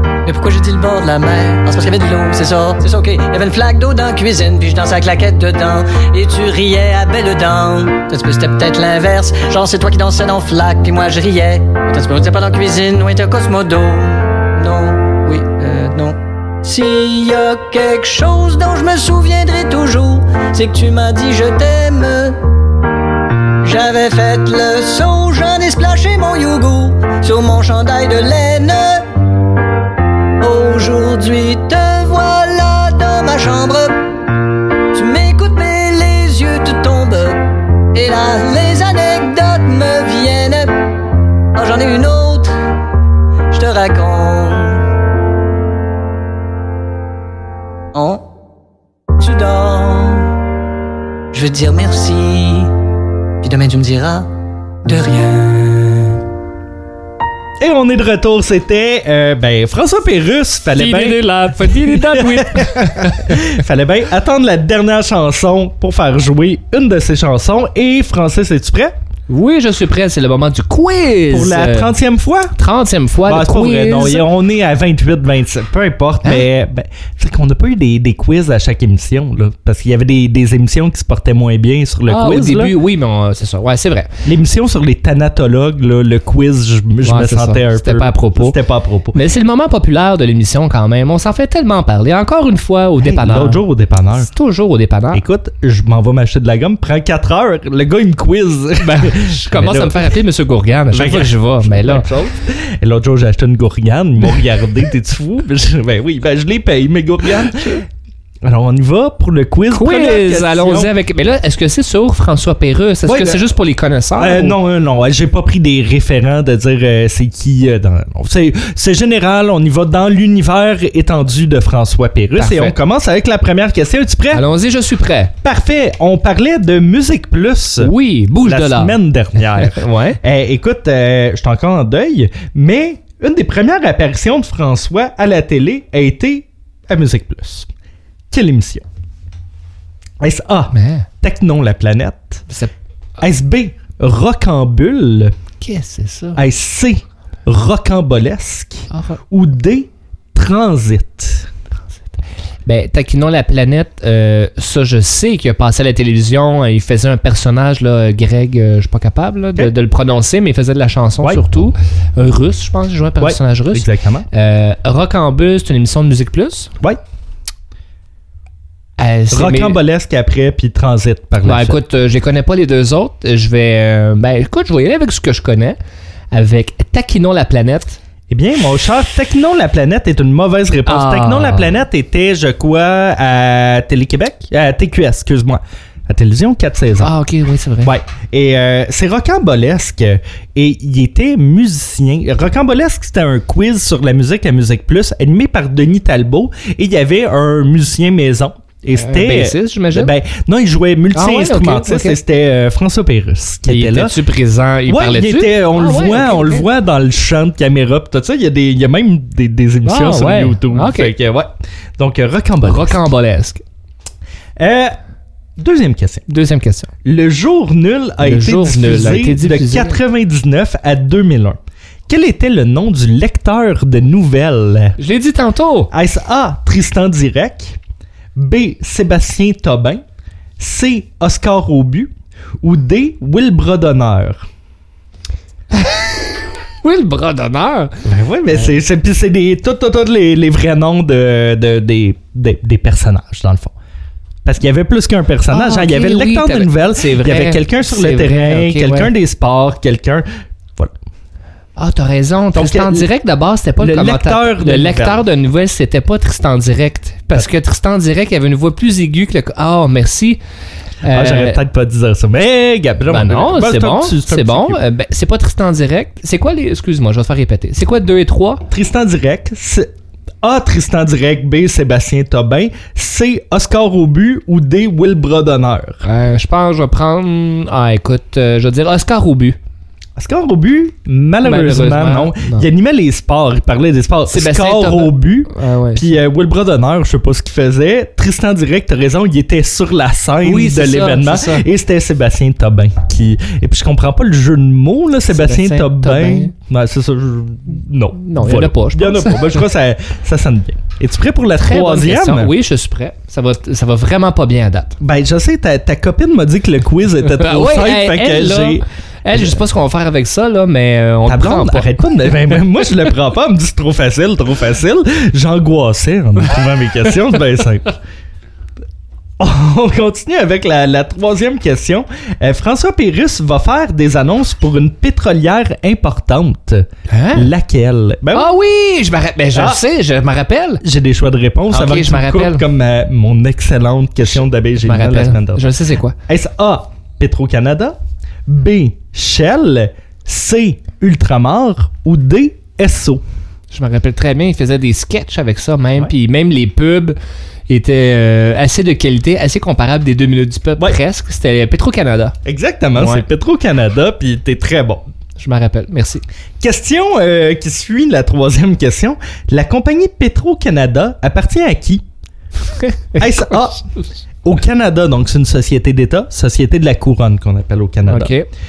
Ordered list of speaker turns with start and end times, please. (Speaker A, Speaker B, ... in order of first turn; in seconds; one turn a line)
Speaker A: 0.2-22.4
Speaker A: 23.6-29.1
Speaker A: 30.4-34.0
Speaker A: 34.9-40.8
Speaker A: 41.5-42.5
Speaker A: 43.5-44.8
Speaker A: 47.9-48.2
Speaker A: 49.2-50.3
Speaker A: 51.3-52.7
Speaker A: 53.4-54.3
Speaker A: 54.9-56.2
Speaker B: 57.6-69.0
Speaker C: 60.7-63.5
Speaker C: 69.3-72.0
Speaker B: 71.3-72.5
Speaker C: 72.6-74.2
Speaker B: 73.2-82.7
Speaker C: 82.1-84.1
Speaker B: 84.2-89.2
Speaker C: 87.0-88.6
Speaker C: 89.1-93.7
Speaker B: 93.0-94.3
Speaker C: 94.2-95.2
Speaker B: 95.1-100.1
Speaker C: 98.8-102.1
Speaker B: 100.9-107.8
Speaker B: 108.4-110.9
Speaker C: 109.7-114.6
Speaker B: 113.1-113.4
Speaker B: 114.2-124.5
Speaker C: 122.4-122.8
Speaker C: 124.3-125.3
Speaker B: 125.4-137.7
Speaker C: 127.8-130.2
Speaker B: 138.3-138.9
Speaker B: 140.2-142.5
Speaker C: 140.7-141.1
Speaker B: 143.2-145.3
Speaker C: 145.6-146.4
Speaker B: 146.3-151.5
Speaker C: 148.9-149.2
Speaker C: 152.7-166.7
Speaker B: 161.2-161.7
Speaker B: 163.2-164.3
Speaker C: 169.0-169.8
Speaker B: 169.3-171.8
Speaker C: 171.4-175.8
Speaker C: 176.3-178.0
Speaker B: 178.3-187.1
Speaker C: 180.9-181.8
Speaker C: 187.0-187.9
Speaker B: 187.8-204.1
Speaker C: 198.9-200.1
Speaker C: 201.1-202.2
Speaker C: 203.7-206.7
Speaker B: 204.9-213.0
Speaker C: 209.8-211.1
Speaker C: 212.6-213.6
Speaker B: 214.6-215.0
Speaker B: 215.6-216.2
Speaker C: 216.3-216.9
Speaker B: 217.0-225.0
Speaker C: 218.2-220.0
Speaker C: 225.0-225.9
Speaker B: 225.9-227.8
Speaker B: 228.4-230.0
Speaker B: 230.6-232.1
Speaker B: 232.6-234.5
Speaker C: 235.7-238.0
Speaker B: 238.0-243.8
Speaker B: 244.4-250.9
Speaker C: 245.5-249.1
Speaker C: 251.8-260.4
Speaker B: 252.5-253.1
Speaker B: 253.8-255.2
Speaker C: 261.0-261.6
Speaker B: 261.1-264.8
Speaker C: 263.1-268.6
Speaker B: 268.7-269.9
Speaker B: 270.4-276.0
Speaker C: 276.0-279.6
Speaker B: 280.2-302.5
Speaker C: 281.4-282.7
Speaker C: 284.3-286.2
Speaker C: 290.4-291.6
Speaker C: 295.3-296.5
Speaker C: 298.2-299.6
Speaker C: 301.6-304.9
Speaker B: 305.0-309.7
Speaker C: 307.4-312.0
Speaker B: 311.3-318.0
Speaker B: 319.4-328.5
Speaker C: 327.1-327.5
Speaker C: 328.3-330.8
Speaker B: 329.5-329.8
Speaker B: 330.8-335.7
Speaker C: 331.7-332.6
Speaker C: 334.2-336.2
Speaker B: 336.3-343.2
Speaker C: 343.7-347.1
Speaker C: 347.7-352.4
Speaker B: 352.4-355.1
Speaker C: 352.9-353.3
Speaker C: 355.4-356.2
Speaker B: 356.6-362.0
Speaker C: 362.6-363.8
Speaker B: 363.2-363.8
Speaker B: 364.4-368.3
Speaker C: 368.1-368.5